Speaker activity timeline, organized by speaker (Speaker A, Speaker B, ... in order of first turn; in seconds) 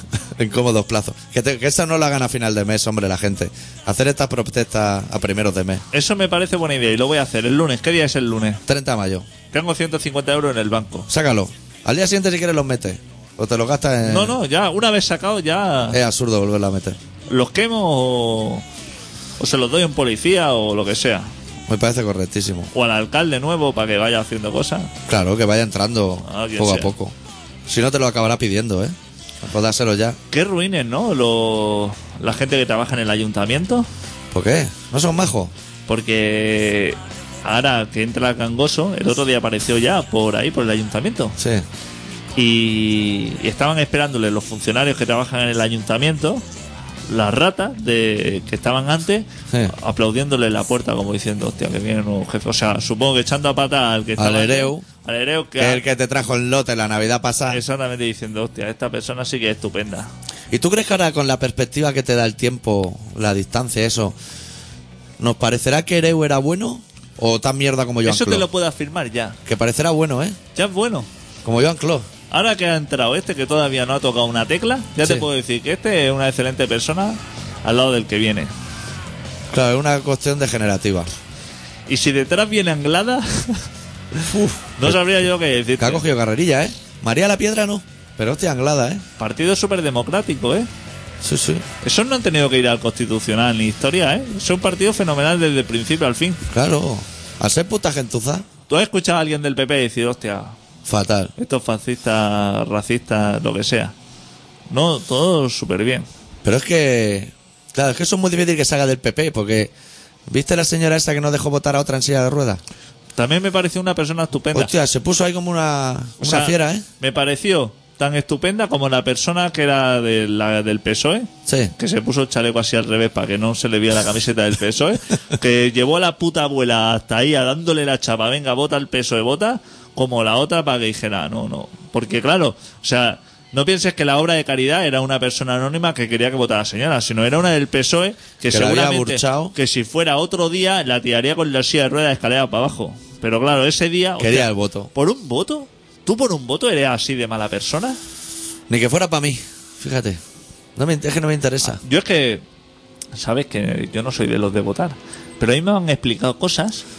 Speaker A: 0.3-5.8, 8.7-9.3, 11.1-14.4, 15.9-17.0, 21.7-22.7, 25.1-27.1, 27.7-30.2, 34.3-35.5, 41.4-41.6, 54.2-54.9, 55.6-57.6, 60.5-64.2, 65.2-68.5, 69.5-70.4, 71.4-72.1, 79.5-81.1, 84.3-85.0, 85.8-89.0, 91.2-91.6, 96.5-98.5, 100.8-101.3, 106.4-109.7, 110.3-112.6, 114.5-116.8, 121.5-121.7, 138.5-139.5, 144.2-144.9, 148.7-150.2, 150.8-151.8
Speaker B: 5.9-8.6, 9.5-11.1, 14.0-16.0, 17.3-18.6, 19.4-21.3, 22.7-24.9, 26.2-26.9, 30.3-33.9, 35.9-41.4, 42.4-46.4, 47.1-55.8, 57.5-60.1, 68.0-69.4, 70.5-71.1, 72.3-78.5, 81.9-83.7, 84.8-86.0, 89.2-90.7, 91.8-96.4, 98.7-100.5, 101.4-103.9, 104.7-106.1, 113.2-114.7, 116.2-148.0, 151.8-152.4, 153.1-156.8